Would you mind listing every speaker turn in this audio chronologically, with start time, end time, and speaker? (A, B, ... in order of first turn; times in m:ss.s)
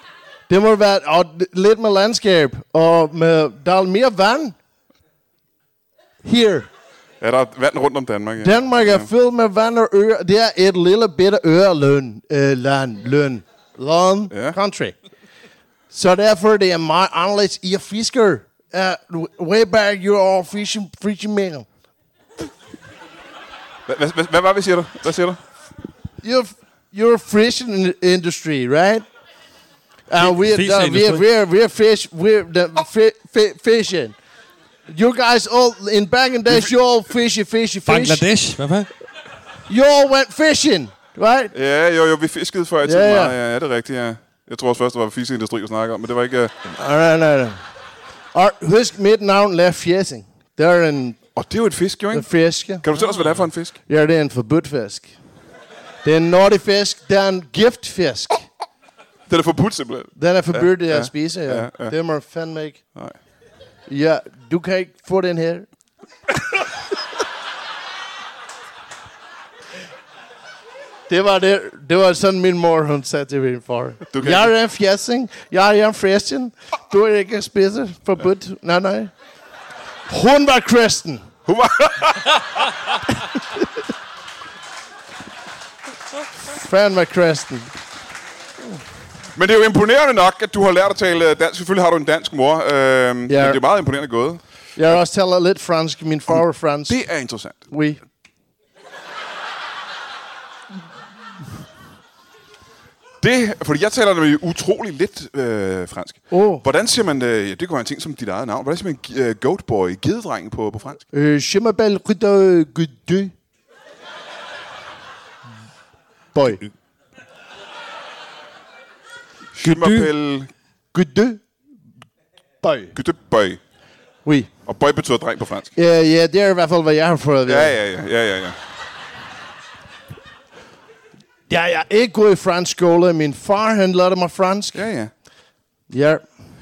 0:00.5-0:04.6 A
0:06.2-0:06.7 A
0:07.2-0:09.1 B
0:08.4-0:15.0 A
0:14.3-0:14.6 B
0:15.9-0:21.7 A
0:23.9-0:25.4 B
0:26.2-0:29.1 A
0:30.1-0:34.2 A
0:30.2-0:31.2 C
0:34.9-0:38.2 A
0:37.9-0:38.9 C
0:39.7-0:41.5 A
0:41.5-0:46.5 B
0:42.8-0:43.4 A
0:46.7-0:47.6 A
0:48.3-0:51.2 A
0:51.4-0:52.3 B
0:52.1-0:52.9 A
0:52.8-0:53.8 B
0:53.0-0:53.5 C
0:53.9-0:55.1 A
0:56.0-0:58.4 A
0:59.3-1:02.0 B
1:00.2-1:02.8 A
1:03.9-1:05.7 A
1:11.1-1:19.1 A
1:14.1-1:14.5 B
1:20.1-1:21.3 A
1:21.5-1:22.7 B
1:26.5-1:27.7 A
1:29.4-1:34.4 B
1:33.3-1:33.6 A
1:34.8-1:37.0 A
1:36.3-1:37.6 B
1:37.7-1:38.0 A
1:43.2-1:51.0 B
1:46.3-1:46.6 A
1:51.1-1:53.3 A
1:56.3-1:56.6 A
1:59.6-2:00.5 B
1:59.6-2:00.1 C
2:00.9-2:01.4 A
2:02.6-2:03.0 A
2:03.0-2:03.6 B
2:04.2-2:04.5 A
2:04.7-2:05.7 B
2:05.8-2:07.8 A
2:07.5-2:08.6 B
2:11.5-2:14.8 A
2:14.7-2:15.1 B
2:15.9-2:16.3 A